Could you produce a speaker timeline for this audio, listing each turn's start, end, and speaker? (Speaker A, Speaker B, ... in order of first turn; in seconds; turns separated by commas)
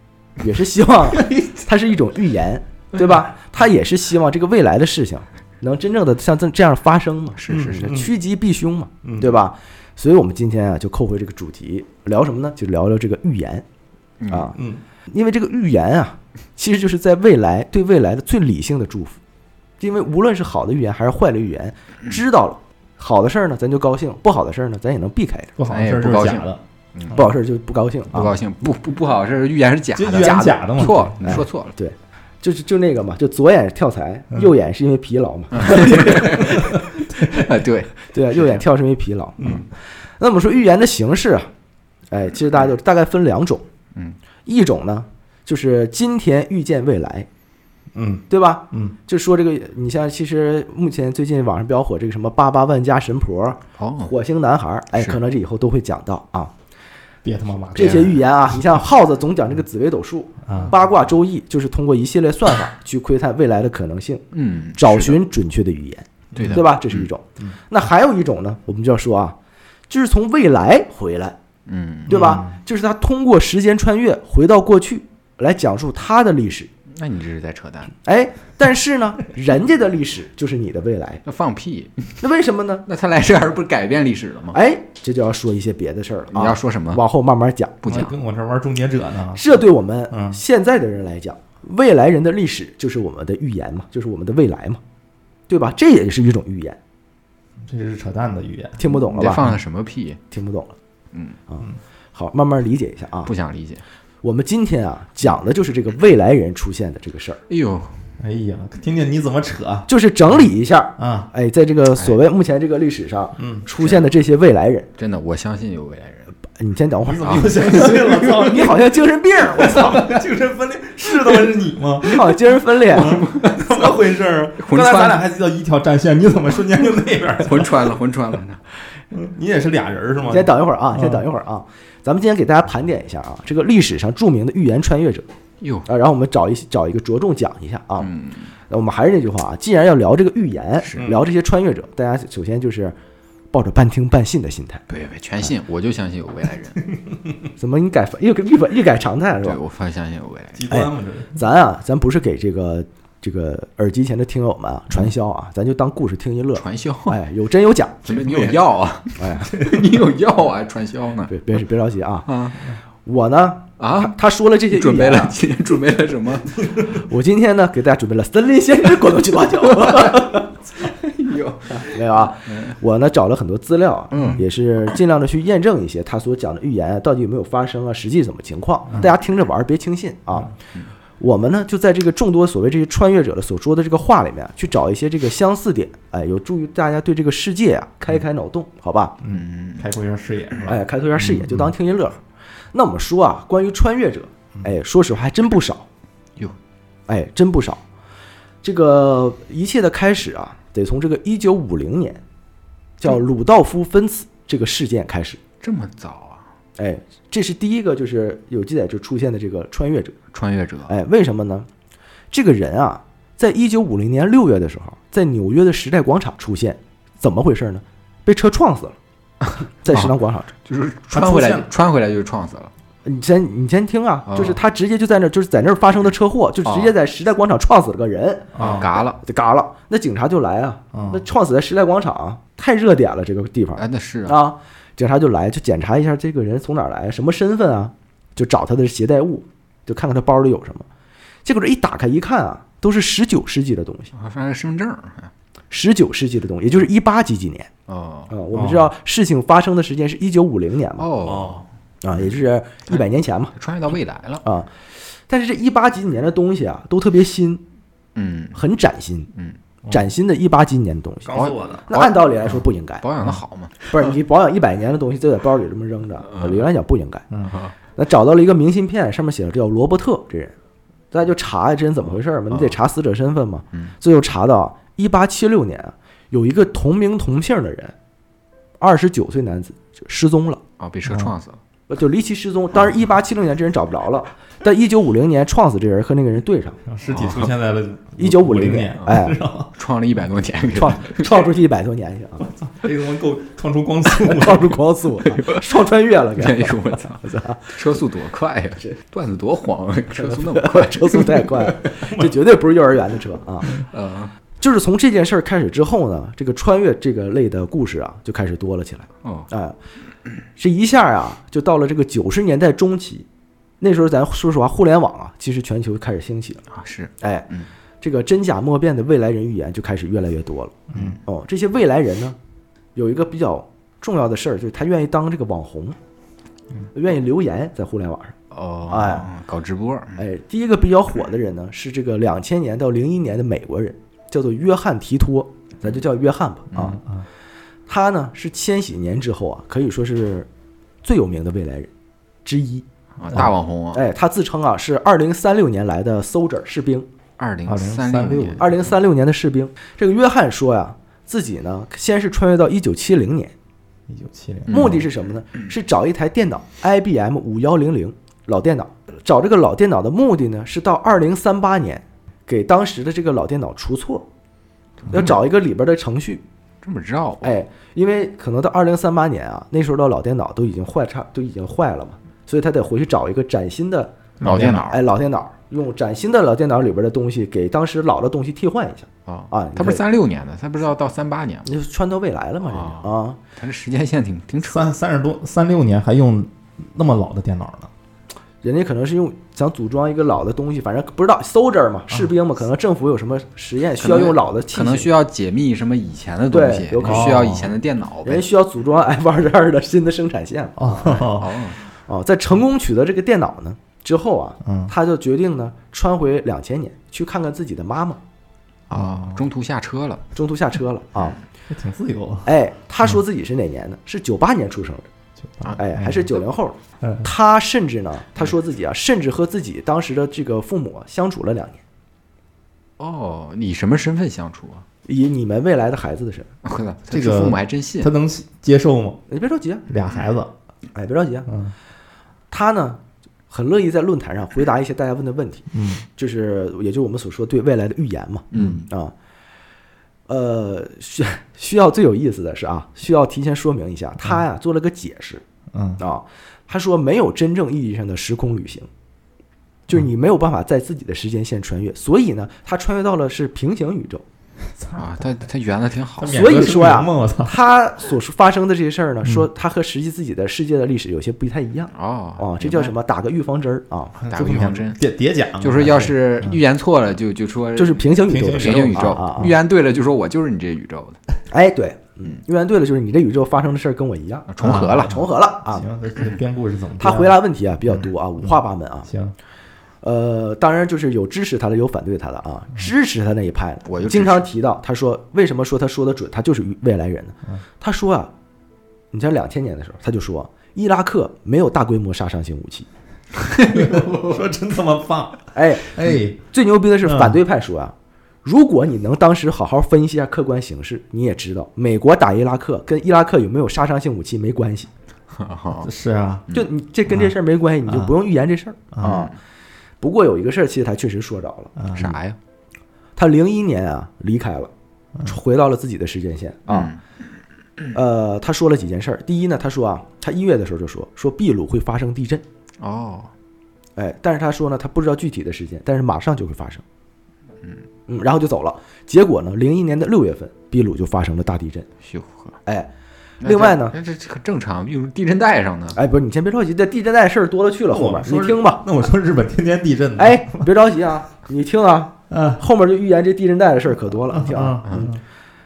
Speaker A: 0.4-13.6, Speaker B: 7.3-8.0, Speaker C: 7.5-8.1, Speaker C: 9.0-9.3, Speaker B: 14.2-14.5, Speaker A: 14.3-14.6, Speaker C: 14.5-14.8, Speaker A: 15.1-19.2, Speaker A: 19.8-25.5, Speaker C: 25.6-26.6, Speaker B: 25.7-27.3, Speaker A: 27.1-28.3, Speaker B: 28.1-31.7, Speaker C: 29.9-31.4, Speaker A: 30.2-37.4, Speaker B: 35.5-38.5, Speaker A: 38.1-39.6, Speaker C: 39.4-39.7, Speaker A: 40.2-41.5, Speaker A: 42.1-43.6, Speaker A: 44.5-47.3, Speaker C: 47.9-48.9, Speaker A: 48.3-56.5, Speaker B: 53.8-54.1, Speaker C: 57.2-58.0, Speaker A: 57.7-64.2, Speaker B: 57.8-58.1, Speaker C: 60.5-60.7, Speaker B: 64.3-65.2, Speaker A: 64.8-69.3, Speaker B: 66.3-67.1, Speaker A: 69.9-71.4, Speaker B: 71.7-72.2, Speaker A: 72.1-76.7, Speaker C: 72.1-72.6, Speaker B: 76.9-77.9, Speaker A: 78.0-81.2, Speaker B: 81.2-82.2, Speaker A: 82.2-82.8, Speaker B: 82.9-84.6, Speaker A: 84.5-87.8, Speaker B: 86.3-87.0, Speaker B: 87.8-88.1, Speaker C: 87.9-89.5, Speaker A: 89.3-94.8, Speaker C: 90.1-90.4, Speaker A: 95.5-96.8, Speaker C: 97.6-98.8, Speaker A: 98.8-99.4, Speaker B: 99.1-100.2, Speaker A: 100.3-100.8, Speaker B: 101.1-101.4, Speaker A: 101.5-103.3, Speaker B: 103.2-103.8, Speaker A: 104.2-107.4, Speaker B: 107.5-108.0, Speaker C: 108.2-109.9, Speaker A: 109.9-114.9, Speaker C: 111.0-111.3, Speaker C: 113.4-113.6, Speaker B: 113.8-114.0, Speaker B: 115.0-116.3, Speaker A: 116.6-120.1, Speaker C: 117.0-127.9, Speaker B: 117.2-118.6, Speaker A: 122.0-123.2, Speaker B: 122.8-124.0, Speaker B: 124.6-125.2, Speaker B: 127.4-128.6, Speaker C: 129.1-131.2, Speaker A: 130.3-135.2, Speaker B: 135.6-135.9, Speaker A: 135.8-138.1, Speaker B: 138.0-138.5, Speaker A: 138.7-142.9, Speaker B: 140.8-141.2, Speaker A: 143.5-144.8, Speaker B: 144.9-146.8, Speaker A: 147.6-149.6, Speaker B: 149.4-150.6, Speaker C: 150.5-151.4, Speaker A: 150.7-158.4, Speaker B: 156.6-157.2, Speaker B: 158.0-161.3, Speaker C: 158.3-158.5, Speaker A: 159.2-159.6, Speaker A: 161.3-162.3, Speaker B: 162.2-162.7, Speaker A: 163.0-165.3, Speaker B: 163.8-164.1, Speaker B: 164.7-166.6, Speaker A: 166.8-170.5, Speaker B: 169.7-172.7, Speaker A: 171.8-180.5, Speaker B: 174.1-174.4, Speaker A: 181.2-189.1, Speaker C: 189.2-191.7, Speaker B: 189.2-189.9, Speaker A: 190.7-192.2, Speaker A: 192.7-195.8, Speaker A: 197.1-197.8, Speaker A: 198.6-202.2, Speaker A: 203.0-205.4, Speaker B: 205.6-206.4, Speaker A: 206.8-210.1, Speaker B: 210.3-210.9, Speaker A: 210.9-211.7, Speaker A: 212.3-218.9, Speaker A: 219.8-220.5, Speaker B: 219.9-222.7, Speaker C: 221.1-221.7, Speaker A: 223.0-240.8, Speaker B: 224.3-224.6, Speaker B: 226.6-226.9, Speaker C: 228.5-228.9, Speaker B: 228.6-229.2, Speaker C: 230.9-231.2, Speaker B: 233.8-234.4, Speaker A: 241.4-244.1, Speaker B: 244.1-245.3, Speaker A: 245.7-247.7, Speaker B: 247.9-248.3, Speaker A: 248.3-251.1, Speaker C: 248.5-248.9, Speaker B: 251.0-251.6, Speaker C: 251.2-251.6, Speaker A: 252.0-253.5, Speaker B: 253.5-254.4, Speaker A: 254.4-254.7, Speaker A: 255.3-257.6, Speaker B: 258.1-258.6, Speaker A: 258.5-259.3, Speaker A: 259.9-261.3, Speaker C: 261.2-261.9, Speaker B: 261.3-263.9, Speaker A: 261.9-263.0, Speaker A: 263.8-267.2, Speaker B: 266.3-266.6, Speaker A: 267.9-270.6, Speaker A: 271.1-277.9, Speaker A: 278.8-280.6, Speaker B: 280.8-281.6, Speaker A: 281.9-286.8, Speaker C: 286.9-289.7, Speaker B: 287.1-287.5, Speaker A: 288.2-289.4, Speaker B: 289.8-291.2, Speaker A: 290.7-292.5, Speaker C: 292.6-294.8, Speaker A: 294.1-297.7, Speaker B: 295.3-302.0, Speaker A: 300.1-303.8, Speaker B: 303.6-304.3, Speaker A: 304.6-309.7, Speaker B: 309.2-309.5, Speaker A: 310.6-313.2, Speaker A: 313.8-316.6, Speaker B: 316.7-317.7, Speaker A: 317.2-317.5, Speaker A: 318.0-322.4, Speaker C: 320.9-321.2, Speaker A: 322.9-326.0, Speaker A: 326.9-328.3, Speaker B: 328.5-330.2, Speaker A: 328.9-329.3, Speaker A: 330.2-337.0, Speaker C: 336.9-337.2, Speaker A: 337.9-340.5, Speaker A: 341.0-341.9, Speaker A: 342.4-342.9, Speaker B: 343.2-344.0, Speaker A: 343.9-347.1, Speaker B: 347.4-348.6, Speaker C: 347.6-348.8, Speaker A: 348.6-353.5, Speaker C: 354.1-355.0, Speaker B: 354.7-355.0, Speaker A: 354.7-364.2, Speaker A: 365.1-366.4, Speaker B: 366.8-367.5, Speaker A: 367.4-380.0, Speaker C: 374.4-374.9, Speaker B: 374.4-375.0, Speaker B: 379.3-381.7, Speaker A: 381.6-383.4, Speaker B: 382.7-384.9, Speaker C: 384.6-387.9, Speaker A: 388.6-395.1, Speaker B: 394.0-398.5, Speaker A: 396.5-397.5, Speaker C: 397.0-397.7, Speaker A: 398.2-401.3, Speaker C: 400.8-401.6, Speaker B: 401.1-401.8, Speaker A: 402.1-408.2, Speaker C: 404.6-404.9, Speaker B: 408.9-410.2, Speaker C: 408.9-409.4, Speaker A: 410.3-411.4, Speaker C: 411.7-412.5, Speaker A: 412.4-415.1, Speaker C: 415.5-416.3, Speaker A: 415.8-421.8, Speaker C: 417.0-417.3, Speaker B: 423.0-424.8, Speaker A: 425.1-426.5, Speaker B: 426.6-428.1, Speaker C: 427.1-429.2, Speaker A: 429.3-429.8, Speaker C: 429.9-430.5, Speaker A: 430.9-431.5, Speaker C: 431.5-431.7, Speaker A: 432.5-439.1, Speaker C: 435.7-436.0, Speaker B: 438.5-438.9, Speaker A: 440.3-445.4, Speaker C: 445.7-446.0, Speaker A: 446.0-448.9, Speaker A: 449.9-454.2, Speaker C: 454.6-455.2, Speaker B: 454.9-456.5, Speaker C: 456.2-457.6, Speaker A: 456.3-464.2, Speaker B: 461.9-462.9, Speaker C: 464.2-466.6, Speaker B: 464.2-465.0, Speaker B: 465.6-471.2, Speaker A: 467.8-469.5, Speaker C: 468.3-469.5, Speaker A: 471.5-475.9, Speaker B: 474.5-475.3, Speaker C: 474.6-478.1, Speaker A: 477.0-479.1, Speaker C: 479.1-479.3, Speaker A: 480.0-488.3, Speaker B: 483.9-484.4, Speaker A: 489.1-492.9, Speaker B: 493.4-494.4, Speaker C: 493.6-496.4, Speaker A: 495.5-504.9, Speaker C: 497.0-497.4, Speaker B: 505.3-505.9, Speaker C: 505.8-506.4, Speaker A: 506.5-509.3, Speaker C: 507.1-507.3, Speaker C: 507.8-508.1, Speaker C: 508.9-509.2, Speaker B: 509.0-509.3, Speaker A: 510.0-511.7, Speaker C: 511.8-512.1, Speaker B: 511.9-512.4, Speaker A: 513.2-514.7, Speaker A: 515.2-516.9, Speaker B: 516.7-517.0, Speaker A: 517.9-522.4, Speaker B: 522.8-523.3, Speaker A: 524.0-526.8, Speaker A: 528.1-531.9, Speaker B: 532.0-532.6, Speaker B: 533.4-536.0, Speaker A: 533.4-533.9, Speaker A: 535.9-538.8, Speaker C: 537.9-540.7, Speaker A: 540.2-545.2, Speaker C: 542.3-542.6, Speaker C: 544.3-545.2, Speaker B: 544.8-545.1